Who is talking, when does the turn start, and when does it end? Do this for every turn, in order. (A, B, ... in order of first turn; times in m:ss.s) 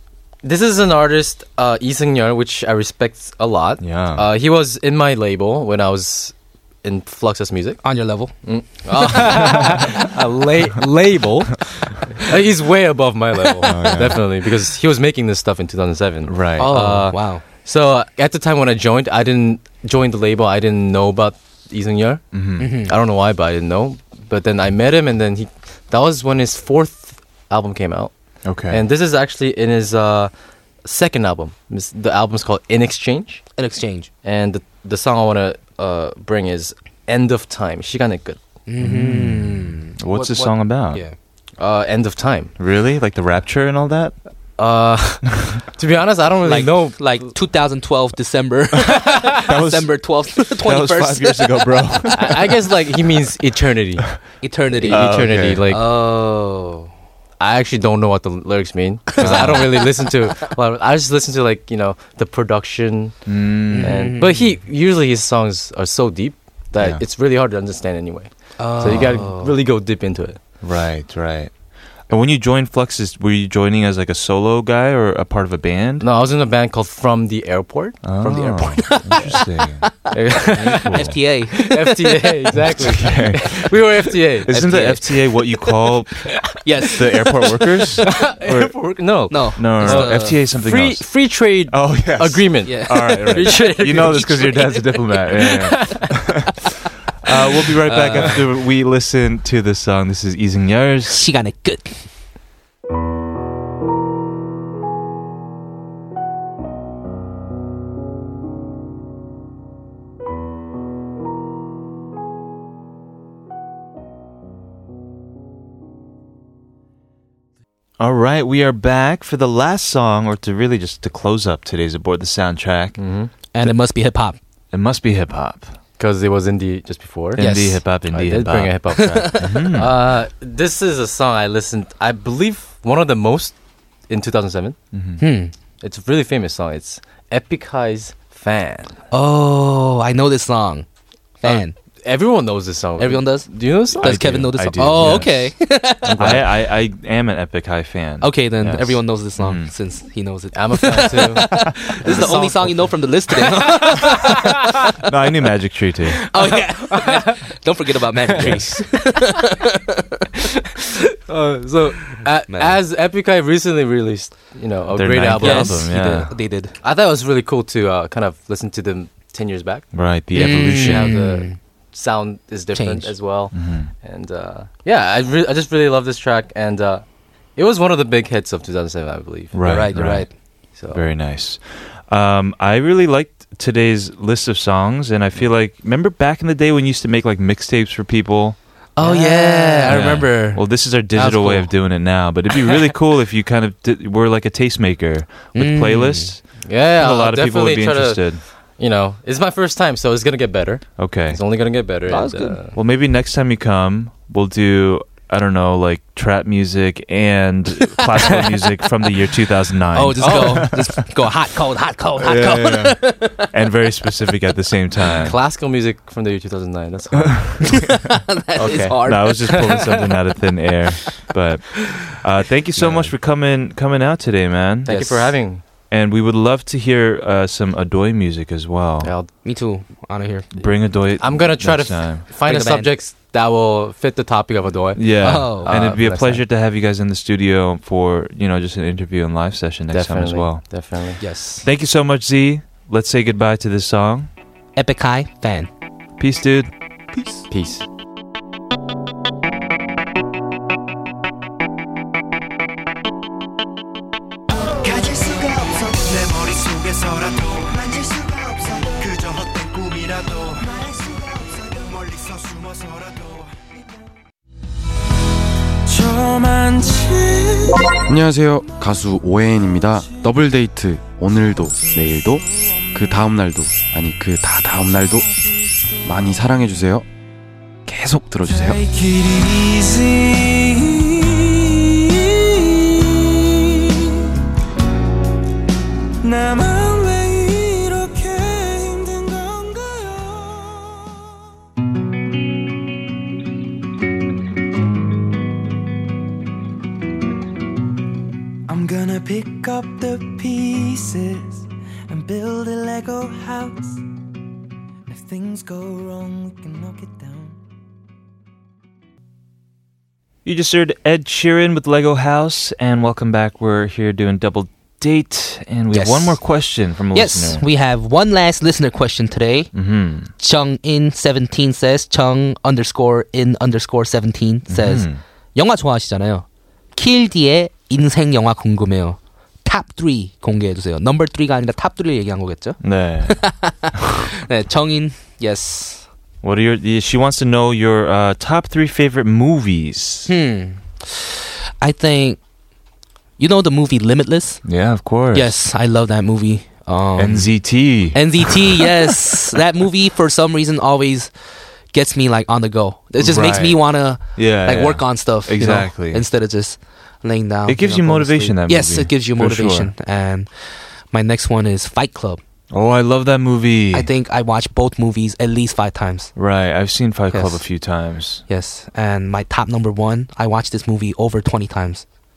0:00.4-0:07.8 A
0:03.8-0:04.2 B
0:07.8-0:08.3 C
0:08.4-0:28.1 A
0:08.9-0:09.9 C
0:13.7-0:14.2 B
0:16.2-0:16.7 B
0:16.6-0:17.4 C
0:22.3-0:22.7 B
0:22.6-0:22.9 C
0:28.4-0:28.8 B
0:28.7-0:30.3 A
0:30.8-0:33.4 A
0:33.6-0:34.1 C
0:34.2-0:38.4 A
0:38.7-0:41.1 C
0:38.8-0:41.0 B
0:41.6-0:42.5 A
0:42.6-0:44.2 B
0:44.6-0:47.3 A
0:46.4-0:51.9 C
0:48.9-0:52.5 B
0:52.1-0:54.1 A
0:54.4-0:56.9 C
0:54.8-0:55.8 A
0:54.8-0:55.6 B
0:57.4-1:10.4 A
0:59.2-0:59.8 B
0:59.2-0:59.5 C
1:03.2-1:04.1 B
1:03.7-1:04.5 C
1:08.6-1:09.5 C
1:10.6-1:11.5 B
1:12.1-1:16.0 B
1:16.0-1:18.0 A
1:18.0-1:19.9 B
1:18.2-1:22.4 C
1:20.1-1:25.0 A
1:20.7-1:21.2 B
1:22.8-1:23.7 B
1:24.4-1:36.6 B
1:24.5-1:25.0 C
1:26.5-1:28.1 C
1:28.0-1:36.0 A
1:29.3-1:30.4 C
1:32.6-1:35.0 C
1:37.2-1:41.2 B
1:37.8-1:38.5 C
1:41.1-1:42.0 C
1:58.0-2:03.0 B
2:03.0-2:03.3 A
2:03.5-2:04.4 C
2:04.7-2:05.7 B
2:06.0-2:13.6 A
2:07.4-2:09.9 B
2:07.4-2:07.7 C
2:09.0-2:09.7 C
2:14.1-2:14.8 A
2:14.9-2:15.2 B
2:15.2-2:15.5 C
2:15.8-2:19.0 A
2:19.1-2:20.8 C
2:21.4-2:21.7 C
2:21.4-2:25.3 A
2:23.0-2:26.4 C
2:24.0-2:25.5 B
2:26.1-2:26.4 A
2:26.1-2:29.7 B
2:28.2-2:34.6 C
2:30.5-2:32.9 A
2:31.7-2:32.4 B
2:35.0-2:36.3 B
2:36.3-2:40.3 C
2:36.9-2:37.4 A
2:38.2-2:38.8 A
2:38.4-2:38.6 B
2:41.3-2:45.9 A
2:42.5-2:42.8 C
2:44.9-2:46.3 B
2:45.4-2:46.7 C
2:46.8-2:57.0 A
2:49.9-2:51.2 B
2:50.3-2:51.6 C
2:52.7-2:53.1 C
2:53.5-2:53.9 B
2:57.6-3:00.0 A
2:59.5-3:00.3 B
2:59.6-3:00.3 C
3:00.8-3:01.0 A
3:00.9-3:08.6 B
3:09.0-3:11.7 C
3:09.0-3:10.0 A
3:09.9-3:18.4 B
3:15.5-3:16.3 C
3:16.6-3:22.8 A
3:21.0-3:21.4 B
3:22.1-3:22.6 C
3:22.7-3:31.0 B
3:28.0-3:28.5 C
3:29.9-3:33.5 C
3:30.2-3:30.7 A
3:32.2-3:35.4 B
3:35.2-3:37.7 A
3:37.2-3:38.0 B
3:37.7-3:40.0 C
3:38.6-3:39.5 A
3:38.7-3:45.3 B
3:42.8-3:43.1 A
3:44.8-3:45.6 A
3:45.9-3:49.1 B
3:49.0-3:49.3 A
3:49.4-3:50.5 C
3:50.6-3:52.2 B
3:50.6-3:56.4 A
3:52.4-3:52.9 C
3:54.9-4:00.6 B
3:55.2-3:55.7 C
3:59.9-4:01.2 A
4:01.2-4:01.7 C
4:01.6-4:04.3 B
4:04.8-4:05.7 C
4:06.2-4:06.7 B
4:07.1-4:07.4 C
4:07.5-4:07.8 A
4:16.7-4:17.0 D
4:25.9-4:28.0 D
4:28.1-4:35.3 E
4:36.0-4:37.0 E
4:37.9-4:38.8 E
4:38.4-4:44.3 D
4:46.2-4:51.2 D
4:58.7-5:04.0 D
5:05.1-5:07.6 D
5:10.4-5:17.7 B
5:15.9-5:16.4 C
5:17.1-5:19.7 C
5:19.7-5:20.3 B
5:20.4-5:36.1 C
5:24.7-5:25.2 B
5:32.8-5:33.4 B
5:36.4-5:40.3 B
5:40.3-5:42.4 C
5:43.4-5:44.6 C
5:44.6-5:45.6 B
5:45.3-5:51.3 C
5:47.2-5:48.9 B
5:51.9-6:02.4 C
5:53.2-5:53.8 B
5:54.3-5:56.2 B
5:57.6-5:59.9 B
6:02.7-6:04.1 B
6:03.9-6:06.3 C
6:06.4-6:08.4 B
6:07.3-6:07.6 C
6:08.5-6:12.0 C